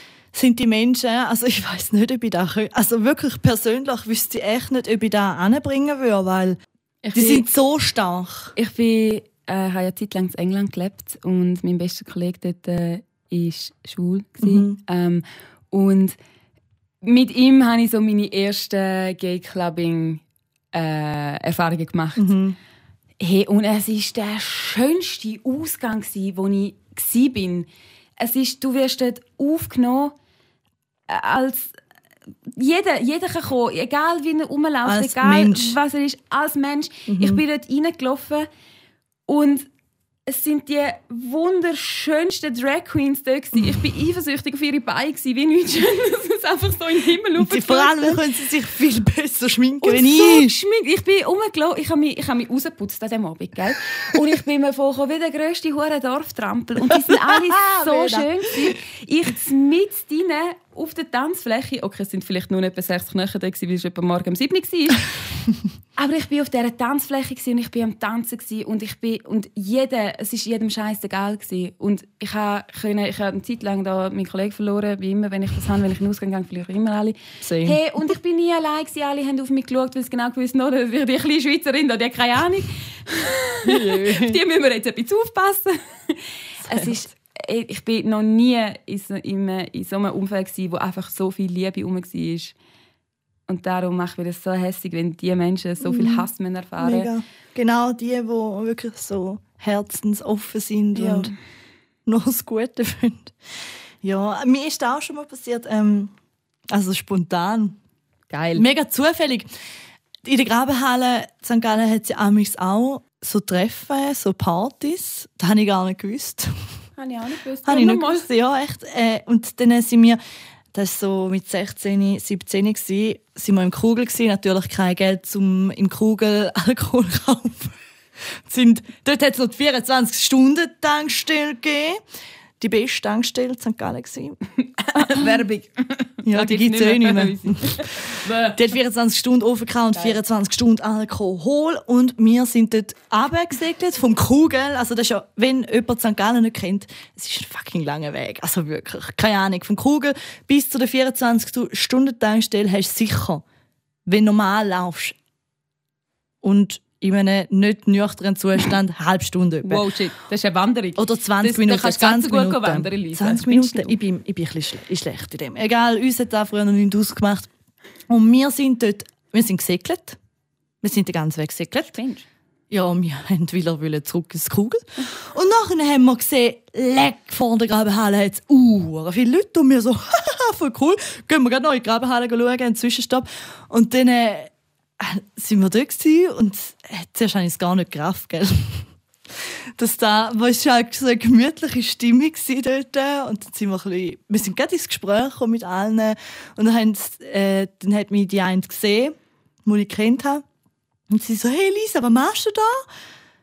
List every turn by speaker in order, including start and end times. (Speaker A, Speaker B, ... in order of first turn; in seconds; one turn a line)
Speaker A: 0.3-6.6
Speaker B: 7.0-7.4
Speaker A: 7.1-8.5
Speaker B: 8.6-16.1
Speaker A: 14.4-14.8
Speaker B: 17.0-20.2
Speaker B: 20.7-22.3
Speaker A: 22.1-22.6
Speaker B: 23.2-30.1
Speaker B: 31.1-31.7
Speaker B: 32.5-38.5
Speaker A: 34.8-35.8
Speaker A: 37.1-37.4
Speaker B: 39.3-39.7
Speaker B: 40.3-48.2
Speaker A: 47.4-50.5
Speaker B: 49.8-65.2
Speaker A: 56.9-58.8
Speaker B: 66.0-92.5
Speaker A: 77.4-77.8
Speaker A: 83.6-84.4
Speaker A: 86.6-87.0
Speaker B: 93.5-97.1
Speaker A: 95.8-101.3
Speaker B: 100.9-101.3
Speaker A: 102.0-106.1
Speaker A: 106.7-107.8
Speaker B: 108.3-108.6
Speaker A: 108.5-109.5
Speaker A: 110.2-116.8
Speaker B: 117.0-118.3
Speaker A: 117.6-120.2
Speaker A: 120.7-127.8
Speaker A: 128.4-132.0
Speaker A: 132.6-134.4
Speaker B: 134.8-138.6
Speaker A: 134.9-135.4
Speaker A: 136.2-153.4
Speaker B: 139.9-140.2
Speaker A: 154.1-155.2
Speaker A: 156.4-159.8
Speaker B: 159.6-163.9
Speaker A: 160.9-167.5
Speaker A: 168.1-170.2
Speaker A: 170.8-171.9
Speaker B: 171.8-172.2
Speaker A: 172.7-188.9
Speaker A: 189.8-200.4
Speaker A: 201.1-202.8